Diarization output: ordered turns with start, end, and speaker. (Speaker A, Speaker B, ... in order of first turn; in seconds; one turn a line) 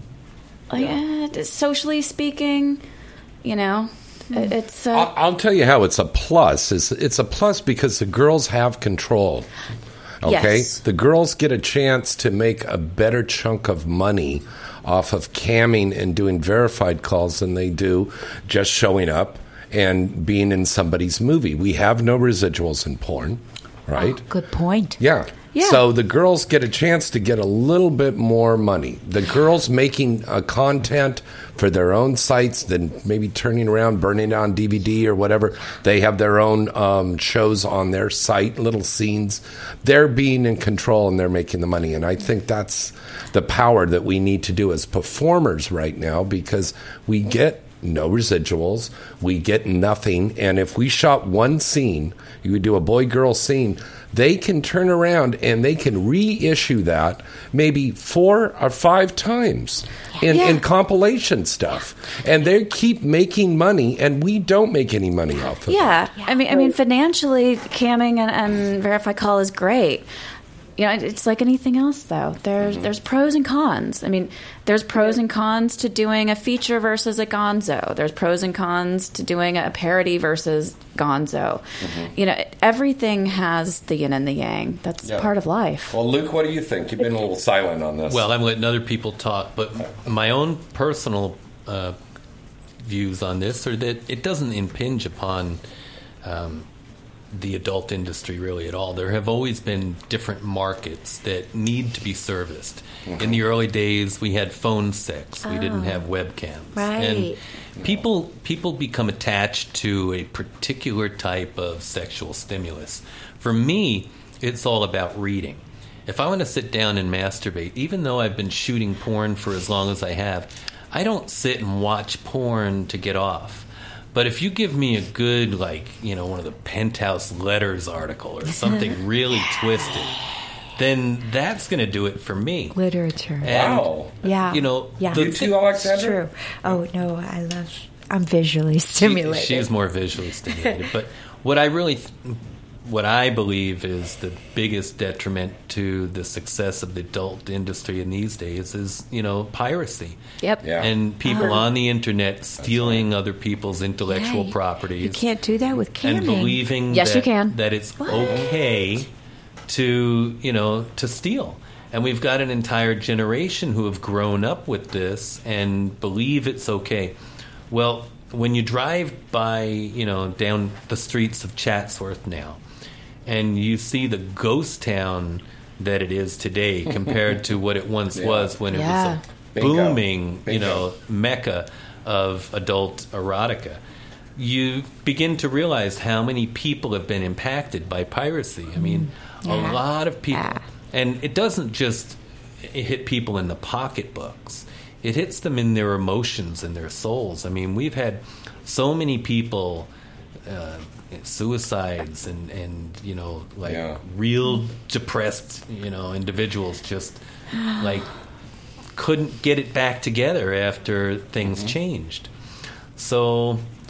Speaker A: 0.7-2.8
Speaker A: 3.4-5.1
Speaker B: 4.9-9.5
Speaker B: 10.2-24.2
Speaker A: 10.2-10.8
Speaker C: 24.0-25.0
Speaker B: 25.0-66.0
Speaker A: 25.6-25.8
Speaker A: 60.3-60.6
Speaker A: 65.7-70.0
Speaker A: 70.8-81.6
Speaker B: 72.6-72.9
Speaker B: 81.8-82.1
Speaker A: 82.1-86.0
Speaker B: 85.0-85.3
Speaker B: 85.9-88.3
Speaker D: 88.1-92.0
Speaker D: 92.8-95.6
Speaker D: 96.2-96.7
Speaker D: 97.3-130.2
Speaker B: 103.1-103.4
Speaker C: 105.4-106.0
Speaker C: 106.7-107.4
Speaker D: 130.7-132.8
Speaker C: 132.7-133.5
Speaker D: 133.4-135.8
Speaker B: 133.4-134.1
Speaker C: 134.2-139.7
Speaker B: 135.1-136.2
Speaker D: 139.0-150.2
Speaker B: 150.6-150.9
Speaker D: 150.8-155.2
Speaker A: 151.2-151.6
Speaker B: 152.6-153.0
Speaker C: 154.1-156.6
Speaker D: 156.0-159.1
Speaker A: 156.9-157.6
Speaker B: 158.2-158.5
Speaker D: 159.7-167.1
Speaker D: 167.7-172.6
Speaker D: 173.2-183.8
Speaker B: 178.1-178.6
Speaker A: 178.7-179.2
Speaker B: 179.5-180.8
Speaker D: 184.3-199.9
Speaker C: 188.8-190.6
Speaker D: 200.5-208.1
Speaker B: 203.6-204.0
Speaker D: 208.9-212.3
Speaker B: 211.4-211.7
Speaker D: 212.9-213.6